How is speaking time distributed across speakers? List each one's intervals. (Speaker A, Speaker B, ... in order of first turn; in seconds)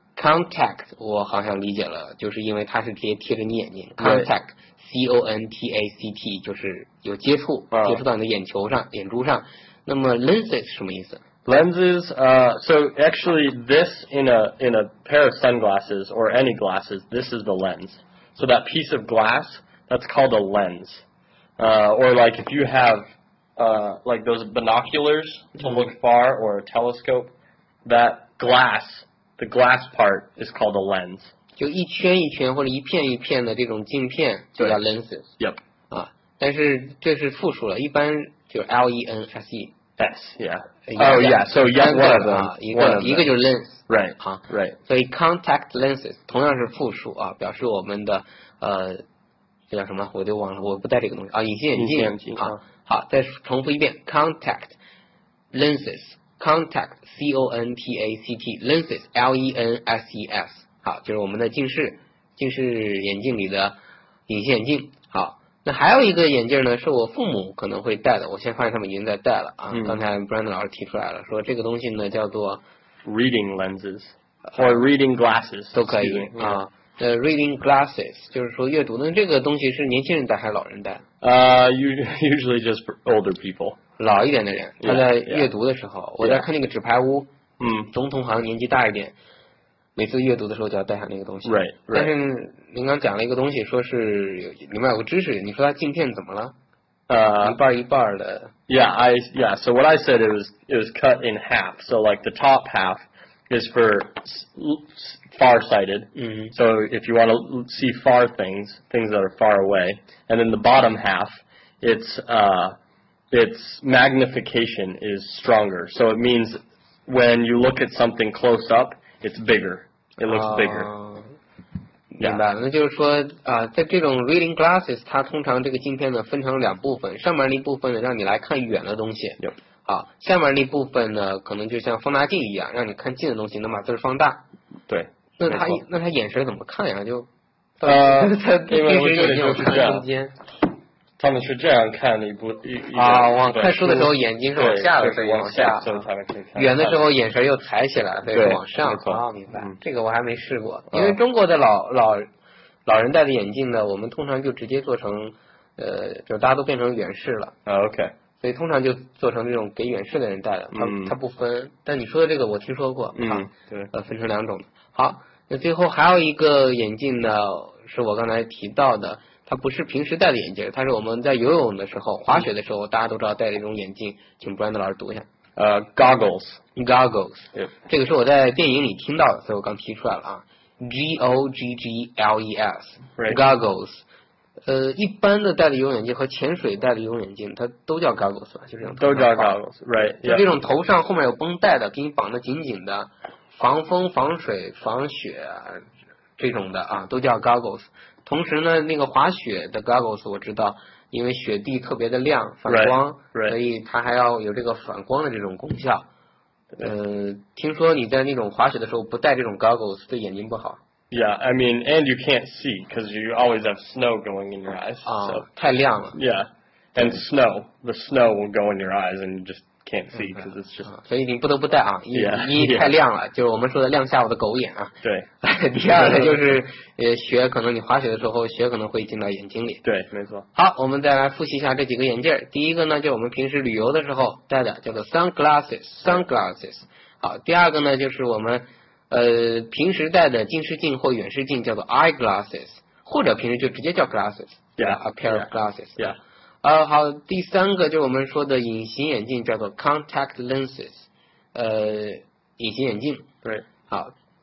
Speaker A: 0.2-11.2, 31.6-35.3, 35.9-39.7, 40.9-49.0, 49.7-54.8, 55.5-63.8, 64.3-72.6, 75.7-81.0, 84.0-87.3, 87.9-89.2, 90.0-96.5, 97.4-98.5, 106.2-106.5, 120.2-121.3, 122.1-134.4, 135.4-137.3, 137.8-140.4, 142.9-146.0, 146.6-152.3, 152.9-157.6, 158.4-175.3, 176.8-184.0, 184.7-189.6, 190.2-195.8, 196.4-206.1, 206.8-210.8, 215.1-216.2, 220.2-229.8, 230.5-246.1, 246.6-253.3, 253.9-254.1
Speaker B: 4.0-4.3, 7.7-8.0, 11.4-21.0, 21.6-27.3, 27.9-31.3, 40.0-43.3, 43.9-44.8, 51.8-52.6, 69.7-70.0, 73.0-76.6, 81.2-83.8, 84.8-85.5, 86.2-86.5, 87.6-87.9, 91.5-92.1, 97.1-97.6, 98.7-112.8, 113.3-120.9, 134.9-135.8, 137.8-140.1, 141.2-147.0, 148.3-149.8, 150.9-151.2, 157.7-158.1, 160.7-161.2, 163.2-163.9, 175.6-176.6, 189.0-190.5, 202.7-203.6, 211.1-215.5, 216.1-220.9, 222.1-222.9, 225.0-225.3, 225.9-226.4, 229.8-230.5, 244.8-246.2